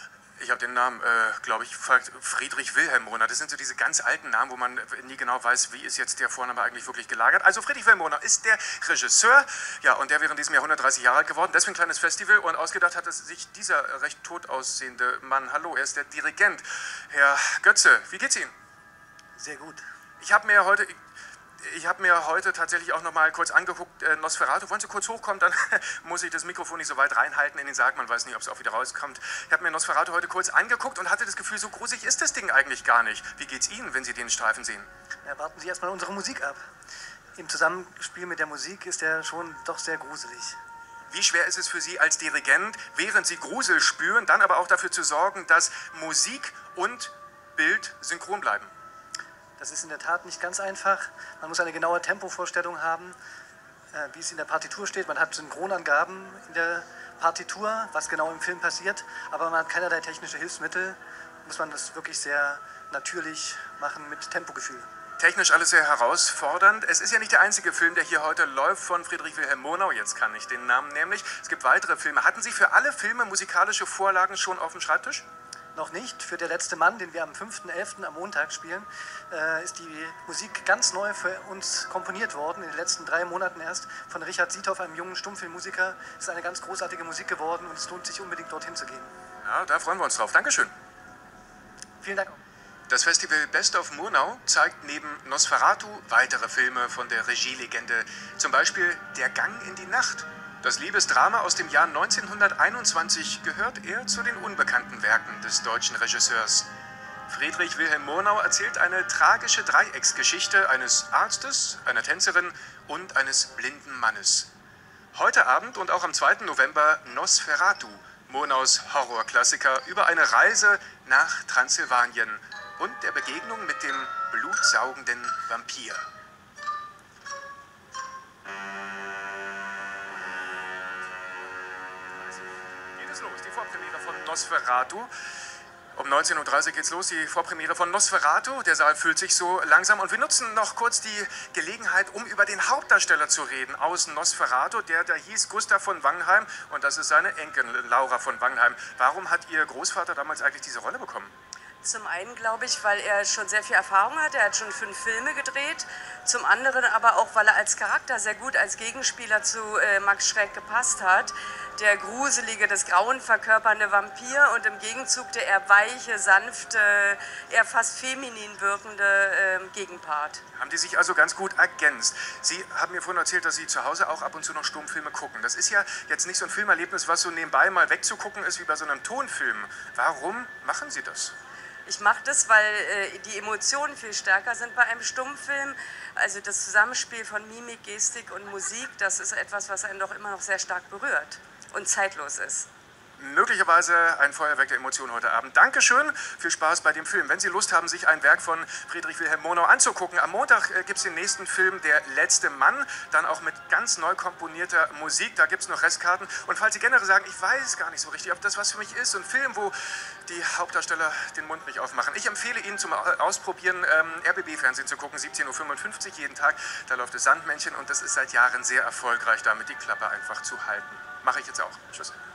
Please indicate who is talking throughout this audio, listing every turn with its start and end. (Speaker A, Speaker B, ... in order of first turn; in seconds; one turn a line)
Speaker A: 0.4-18.5
Speaker B: 19.4-19.8
Speaker A: 20.2-21.0
Speaker A: 21.6-34.9
Speaker B: 35.2-36.6
Speaker B: 37.4-40.6
Speaker A: 41.1-48.7
Speaker B: 49.6-53.2
Speaker B: 53.9-64.9
Speaker A: 65.2-75.2
Speaker B: 75.8-89.1
Speaker A: 89.4-90.7
Speaker B: 92.0-92.4
Speaker A: 92.9-106.7
Speaker A: 107.3-114.5
Speaker A: 115.1-126.1
Speaker A: 133.0-135.1
Speaker A: 136.0-151.3
Speaker C: 151.8-170.4
Speaker A: 170.6-181.3
Speaker C: 181.9-192.7
Speaker A: 193.2-222.1